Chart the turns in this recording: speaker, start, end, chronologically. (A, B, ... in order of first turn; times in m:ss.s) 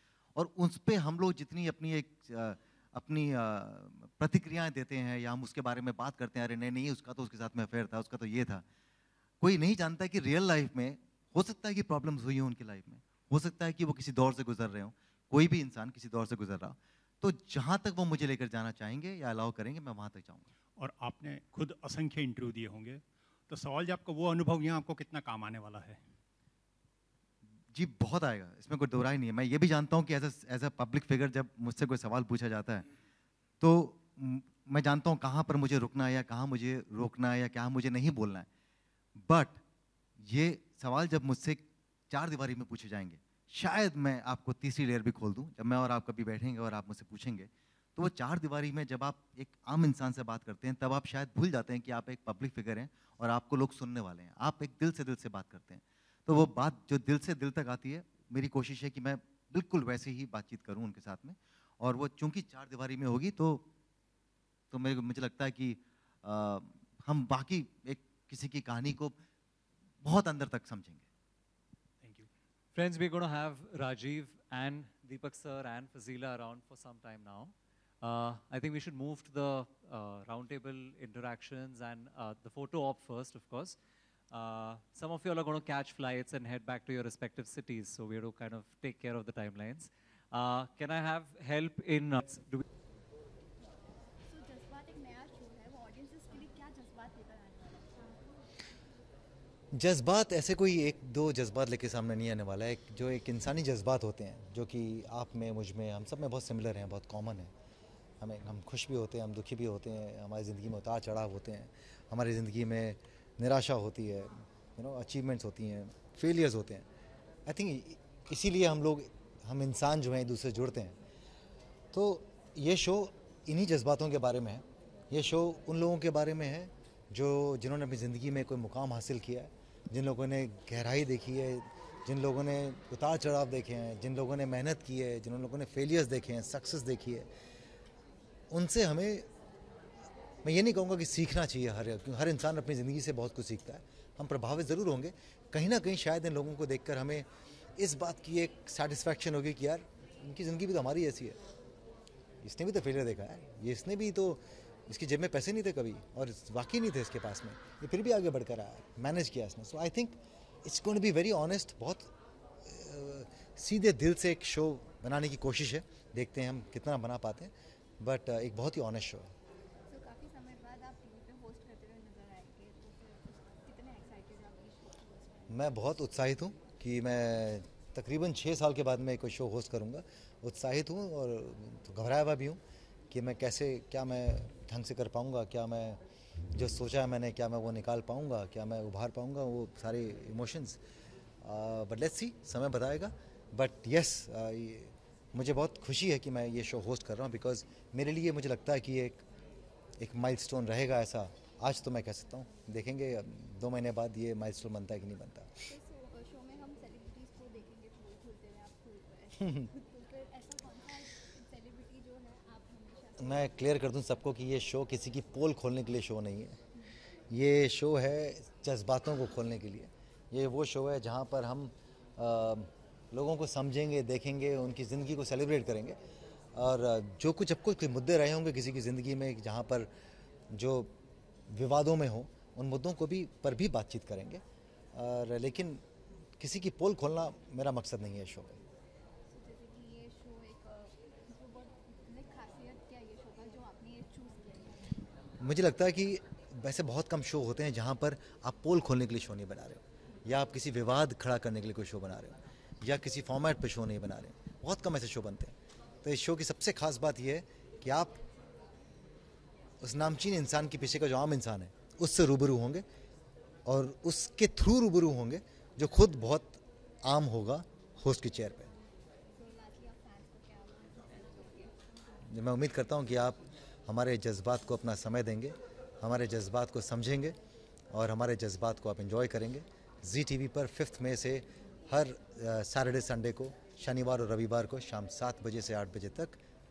0:00.4-0:08.6 A
0:09.4-0:20.5 A
0:20.8-0:26.0 B
0:27.7-0:32.9 A
0:33.6-0:38.5 A
0:39.2-0:39.6 A
0:40.2-1:03.7 A
1:04.7-1:09.2 A
1:10.0-1:11.0 A
1:12.0-1:12.3 B
1:12.8-1:23.8 C
1:24.3-1:32.6 C
1:34.3-1:37.9 D
1:39.7-1:47.5 A
1:48.2-1:56.9 A
1:57.5-2:01.0 A
2:01.9-2:17.3 A
2:18.5-2:19.3 A
2:20.4-2:31.4 A
2:32.4-2:42.1 A
2:42.6-2:49.3 A
2:49.9-2:55.7 D
2:55.5-3:06.0 A
3:06.5-3:10.8 A
3:11.4-3:19.2 A
3:20.0-3:25.5 A
3:25.7-3:33.6 D
3:29.4-3:29.7 A
3:33.2-3:36.6 A
3:37.3-3:46.0 A
3:46.5-3:49.9 A
3:50.5-3:50.9 A
3:51.5-3:55.8 A
3:56.4-3:58.6 A
3:59.3-4:05.0 D
4:05.4-4:18.2 A
4:19.8-4:22.8 A
4:23.6-4:28.7 A
4:29.3-4:31.8 D
4:32.3-4:37.4 A
4:37.9-4:46.4 A